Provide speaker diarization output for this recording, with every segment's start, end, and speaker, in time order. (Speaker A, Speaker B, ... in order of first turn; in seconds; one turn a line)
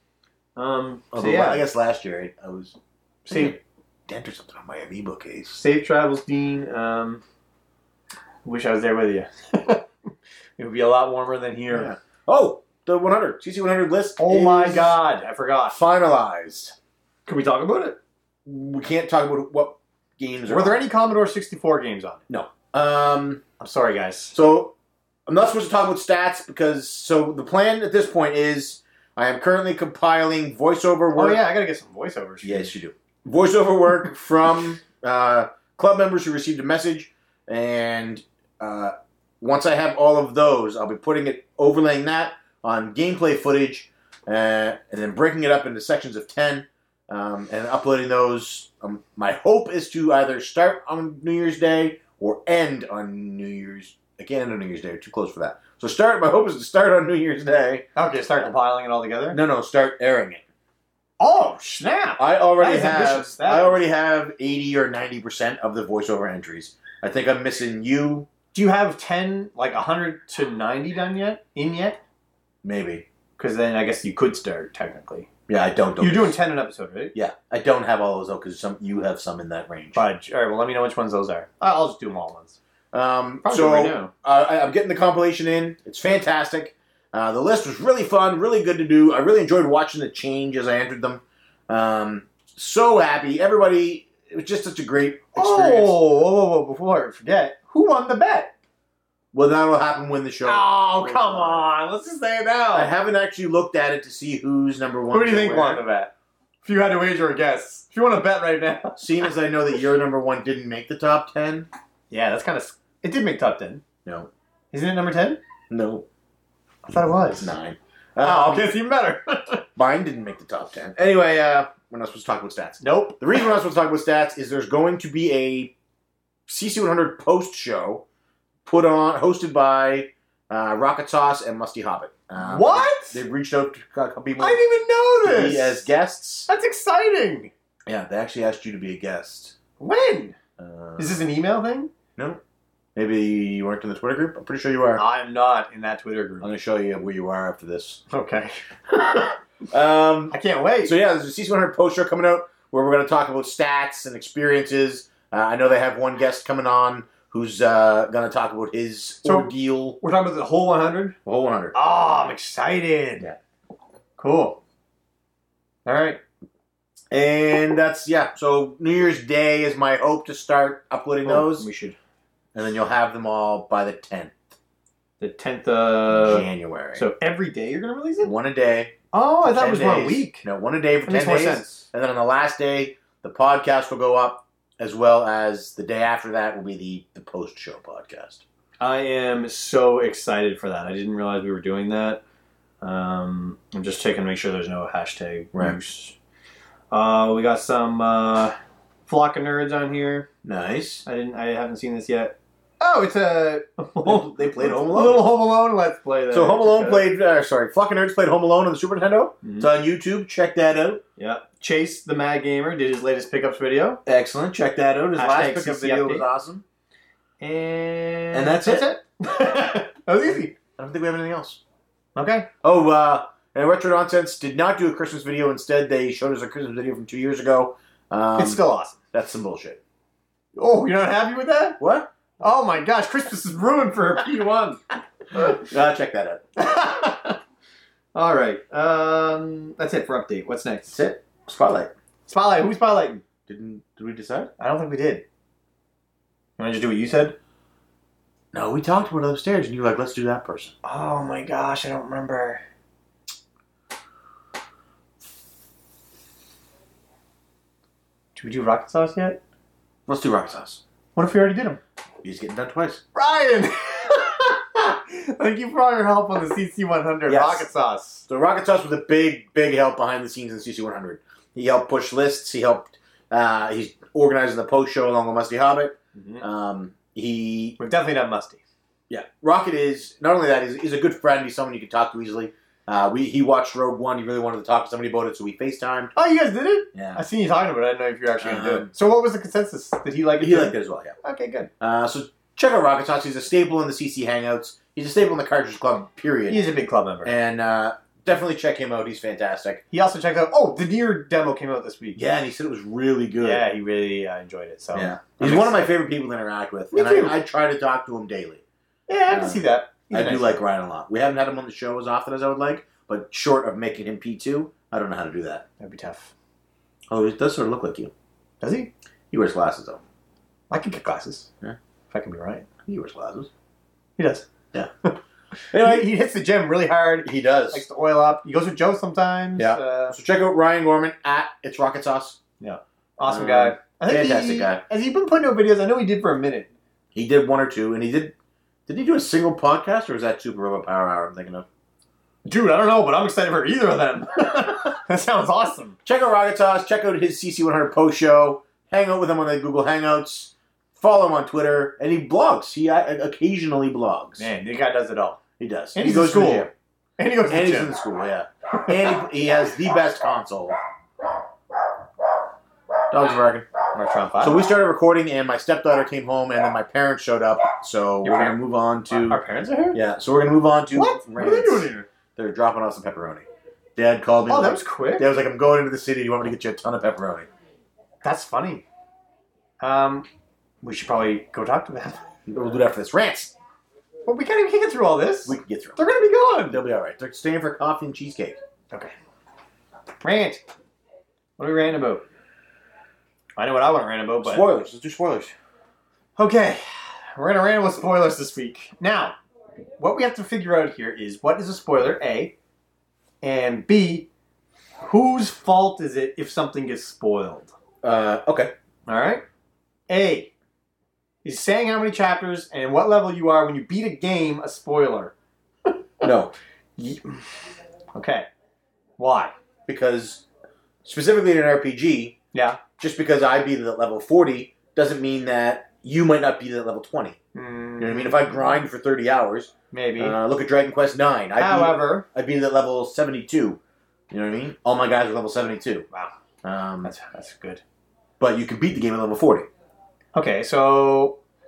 Speaker A: 0.6-1.6
Speaker B: 1.1-2.8
Speaker A: 3.2-3.5
Speaker B: 3.3-5.6
Speaker A: 5.5-7.2
Speaker A: 8.4-9.9
Speaker A: 10.6-11.9
Speaker B: 11.7-15.0
Speaker A: 14.2-15.8
Speaker B: 15.7-16.7
Speaker A: 17.2-18.0
Speaker B: 18.4-20.8
Speaker A: 20.5-22.2
Speaker B: 22.3-23.4
Speaker A: 23.6-24.4
Speaker B: 24.3-24.7
Speaker B: 25.3-31.4
Speaker A: 31.1-32.7
Speaker B: 32.4-57.9
Speaker A: 58.0-59.4
Speaker B: 59.3-60.4
Speaker A: 61.2-63.8
Speaker B: 62.2-68.3
Speaker A: 68.5-72.0
Speaker B: 72.6-73.0
Speaker A: 73.4-75.3
Speaker B: 75.5-76.4
Speaker A: 76.0-77.1
Speaker B: 77.1-80.0
Speaker A: 79.9-82.6
Speaker B: 82.9-96.0
Speaker A: 83.4-84.1
Speaker A: 95.3-98.5
Speaker B: 99.3-101.7
Speaker A: 100.4-102.9
Speaker B: 102.7-105.8
Speaker A: 105.1-106.1
Speaker A: 106.6-109.1
Speaker B: 109.0-111.7
Speaker A: 112.1-113.8
Speaker B: 114.0-114.3
Speaker A: 114.7-115.4
Speaker B: 115.7-116.0
Speaker A: 116.8-117.5
Speaker B: 117.4-118.7
Speaker A: 118.2-119.6
Speaker B: 119.8-125.7
Speaker A: 122.8-123.5
Speaker B: 126.5-128.0
Speaker B: 128.6-134.6
Speaker A: 132.4-133.2
Speaker A: 134.4-135.9
Speaker B: 135.2-136.5
Speaker A: 136.5-137.5
Speaker B: 137.9-139.6
Speaker A: 139.8-140.3
Speaker B: 140.6-141.2
Speaker A: 141.0-141.9
Speaker B: 142.9-145.0
Speaker A: 144.9-146.5
Speaker B: 146.4-148.0
Speaker A: 148.1-149.3
Speaker B: 149.7-160.0
Speaker A: 150.3-150.9
Speaker A: 159.2-161.2
Speaker B: 161.2-161.7
Speaker A: 161.7-163.3
Speaker A: 164.2-164.6
Speaker A: 165.8-166.2
Speaker B: 167.1-171.7
Speaker A: 171.2-171.9
Speaker B: 172.5-174.4
Speaker A: 175.2-178.3
Speaker B: 176.1-177.1
Speaker B: 178.2-188.4
Speaker A: 179.1-180.4
Speaker A: 181.1-181.8
Speaker A: 188.8-192.2
Speaker A: 192.8-196.2
Speaker A: 196.9-198.6
Speaker A: 199.1-200.3
Speaker B: 200.4-201.0
Speaker A: 201.0-207.1
Speaker B: 204.0-205.3
Speaker B: 206.3-211.0
Speaker A: 209.4-209.7
Speaker A: 211.2-214.0
Speaker B: 214.1-216.6
Speaker A: 215.2-216.2
Speaker A: 217.4-220.5
Speaker B: 218.3-218.9
Speaker B: 220.3-221.6
Speaker A: 222.2-222.5
Speaker B: 222.6-228.6
Speaker A: 228.3-229.0
Speaker B: 229.1-229.8
Speaker A: 230.5-231.8
Speaker B: 231.8-232.1
Speaker A: 232.4-234.8
Speaker A: 235.3-235.6
Speaker B: 235.3-236.4
Speaker A: 236.6-237.4
Speaker A: 238.1-241.0
Speaker B: 240.9-241.9
Speaker A: 242.3-243.2
Speaker B: 243.5-244.5
Speaker A: 244.6-245.2
Speaker A: 246.6-247.3
Speaker B: 248.5-250.7
Speaker A: 250.8-252.6
Speaker A: 258.4-259.4
Speaker B: 260.1-260.8
Speaker A: 261.1-261.8
Speaker B: 262.2-263.0
Speaker A: 263.1-268.2
Speaker B: 267.3-267.7
Speaker B: 268.3-277.8
Speaker A: 276.1-276.4
Speaker A: 277.8-278.6
Speaker B: 279.1-286.1
Speaker A: 286.1-291.7
Speaker B: 286.9-287.2
Speaker B: 288.4-288.9
Speaker B: 290.4-291.1
Speaker B: 291.8-296.6
Speaker A: 296.5-297.3
Speaker B: 297.2-299.8
Speaker A: 299.9-302.2
Speaker B: 302.1-303.6
Speaker A: 303.4-305.9
Speaker B: 304.9-308.6
Speaker A: 306.9-307.4
Speaker A: 309.1-310.6
Speaker B: 309.3-315.6
Speaker A: 315.8-316.3
Speaker B: 317.1-318.1
Speaker A: 318.6-318.9
Speaker B: 319.3-320.0
Speaker A: 320.7-321.5
Speaker A: 322.1-322.6
Speaker B: 322.9-323.5
Speaker A: 324.2-324.5
Speaker B: 325.7-326.1
Speaker A: 325.7-330.2
Speaker B: 327.2-327.8
Speaker B: 329.6-332.4
Speaker A: 332.6-336.7
Speaker B: 333.2-334.8
Speaker B: 337.1-338.3
Speaker B: 338.9-341.7
Speaker A: 342.4-346.0
Speaker B: 346.0-354.5
Speaker A: 354.4-355.4
Speaker B: 355.6-356.7
Speaker A: 355.9-357.9
Speaker B: 357.5-360.8
Speaker B: 363.1-363.7
Speaker A: 363.9-364.7
Speaker B: 364.4-369.4
Speaker A: 368.2-368.6
Speaker A: 369.1-370.0
Speaker B: 369.9-377.5
Speaker A: 370.9-372.1
Speaker A: 374.5-375.3
Speaker A: 378.2-378.8
Speaker A: 379.8-380.2
Speaker A: 380.8-382.2
Speaker B: 382.5-383.5
Speaker A: 384.2-386.8
Speaker B: 385.4-386.0
Speaker B: 386.7-388.6
Speaker A: 390.2-390.6
Speaker A: 391.6-392.2
Speaker A: 393.6-394.7
Speaker B: 394.4-395.5
Speaker A: 396.4-396.8
Speaker A: 397.3-399.4
Speaker A: 400.0-402.5
Speaker A: 403.4-404.3
Speaker A: 405.0-407.7
Speaker B: 408.0-408.7
Speaker A: 409.1-409.4
Speaker A: 410.1-410.5
Speaker A: 411.4-415.3
Speaker A: 415.9-416.2
Speaker B: 416.2-416.5
Speaker A: 417.0-417.4
Speaker A: 418.1-418.5
Speaker A: 419.2-419.5
Speaker B: 419.9-420.4
Speaker B: 421.0-422.4
Speaker A: 422.5-422.8
Speaker B: 423.0-427.4
Speaker A: 427.5-428.5
Speaker B: 428.0-433.8
Speaker A: 429.9-430.4
Speaker A: 431.6-432.2
Speaker B: 434.3-436.1
Speaker B: 436.6-437.1
Speaker A: 437.0-437.8
Speaker B: 438.4-439.7
Speaker A: 440.3-441.4